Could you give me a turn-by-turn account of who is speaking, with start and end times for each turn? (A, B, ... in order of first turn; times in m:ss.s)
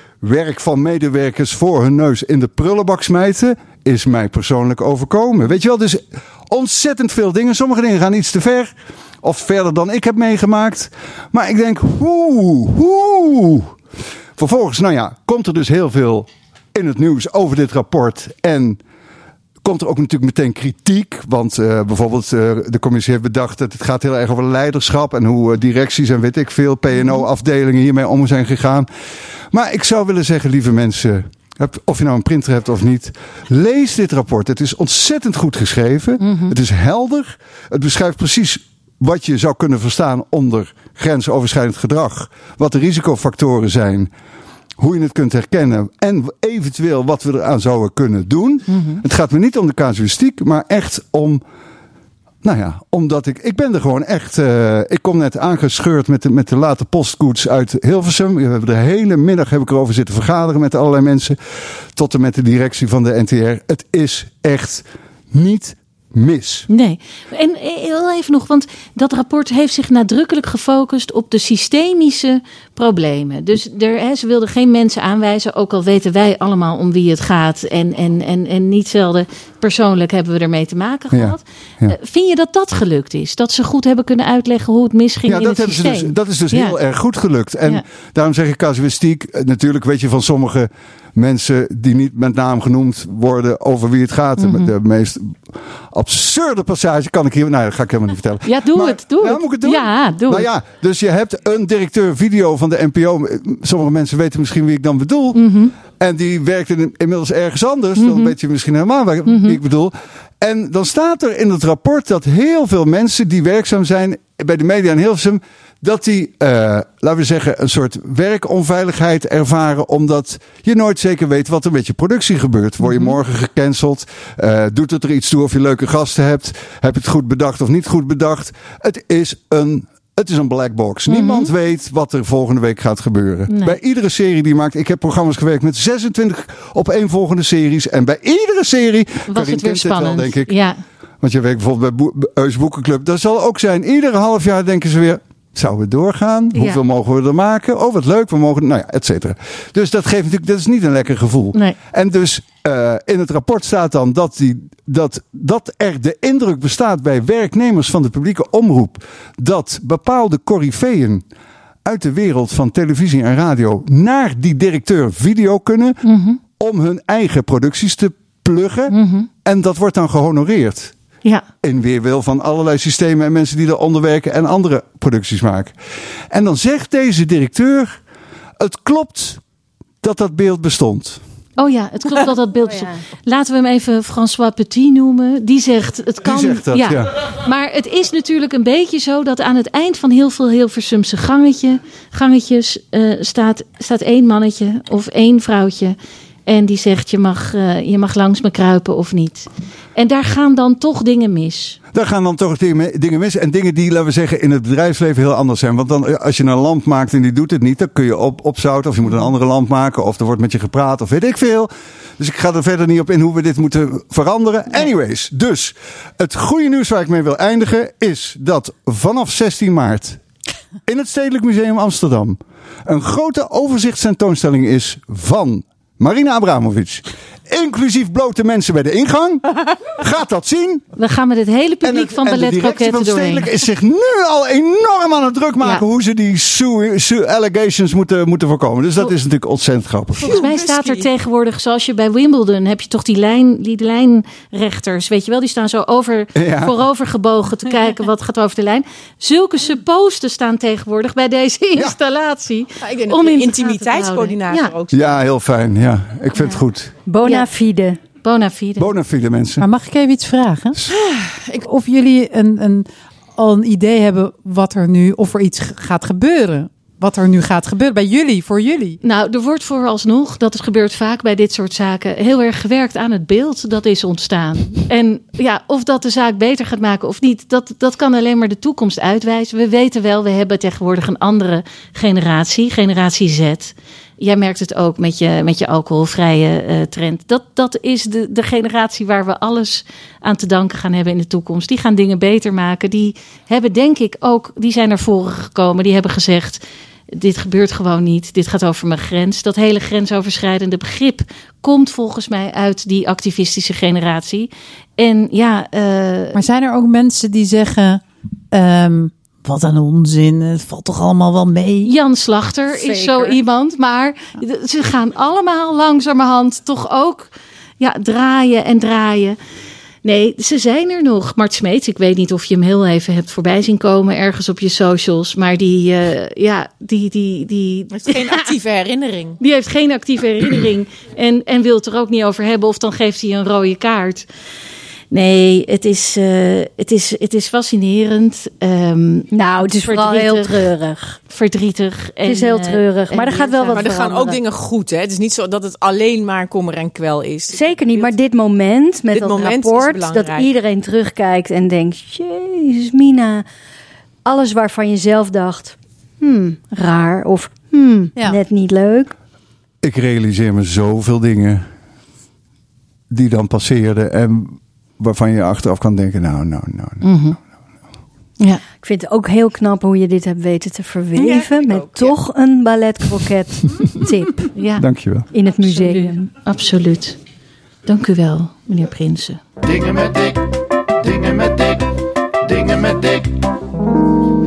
0:00.2-0:13.8 A
0:14.4-0:18.8 A
0:19.6-0:28.9 A
0:29.5-0:44.1 A
0:36.2-0:36.6 B
0:44.8-0:51.4 A
0:48.7-0:49.0 B
0:52.4-1:06.7 A
1:06.7-1:26.8 B
1:21.1-1:22.0 A
1:25.3-2:20.6 A
1:34.4-1:34.7 B
1:38.5-1:40.5 B
1:45.3-1:45.8 B
1:48.0-1:48.4 B
1:49.3-1:49.6 B
2:02.8-2:03.1 B
2:11.1-2:11.5 B
2:13.5-2:13.8 B
2:19.3-2:20.8 B
2:21.2-2:41.2 A
2:26.5-2:26.8 B
2:41.8-2:46.0 A
2:46.0-2:46.4 B
2:46.6-2:50.9 A
2:48.9-2:49.3 B
2:51.6-2:55.8 A
2:56.3-2:58.0 A
2:58.6-2:59.4 A
3:00.0-3:01.2 A
3:01.6-3:16.0 B
3:02.6-3:03.0 C
3:06.2-3:07.1 A
3:16.5-3:21.8 B
3:21.9-3:40.2 A
3:40.9-3:50.9 A
3:51.0-3:53.5 B
3:51.8-4:00.4 A
4:00.2-4:01.1 D
4:00.2-4:14.7 B
4:06.4-4:06.7 A
4:12.8-4:15.2 D
4:14.9-4:16.9 A
4:17.1-4:18.0 C
4:18.2-4:18.9 B
4:18.8-4:19.7 A
4:19.6-4:20.8 E
4:20.9-4:21.6 D
4:21.6-4:29.0 E
4:29.0-4:56.6 B
4:57.1-5:06.4 B
5:06.3-5:11.9 E
5:11.8-5:19.4 B
5:12.9-5:13.3 C
5:20.0-5:28.4 B
5:27.9-5:29.4 D
5:29.4-5:34.3 B
5:35.1-5:40.7 B
5:39.3-5:41.2 C
5:41.3-5:43.9 B
5:42.2-5:44.4 C
5:43.7-5:48.1 D
5:47.5-5:53.5 C
5:49.1-5:50.5 D
5:54.2-5:59.1 C
5:59.8-6:01.7 A
6:03.1-6:07.0 A
6:07.0-6:07.4 B
6:08.8-6:14.5 C
6:11.2-6:12.2 D
6:14.5-6:14.8 B
6:14.8-6:15.3 A
6:15.3-6:16.3 C
6:15.6-6:17.2 B
6:17.9-6:19.4 B
6:19.6-6:23.5 F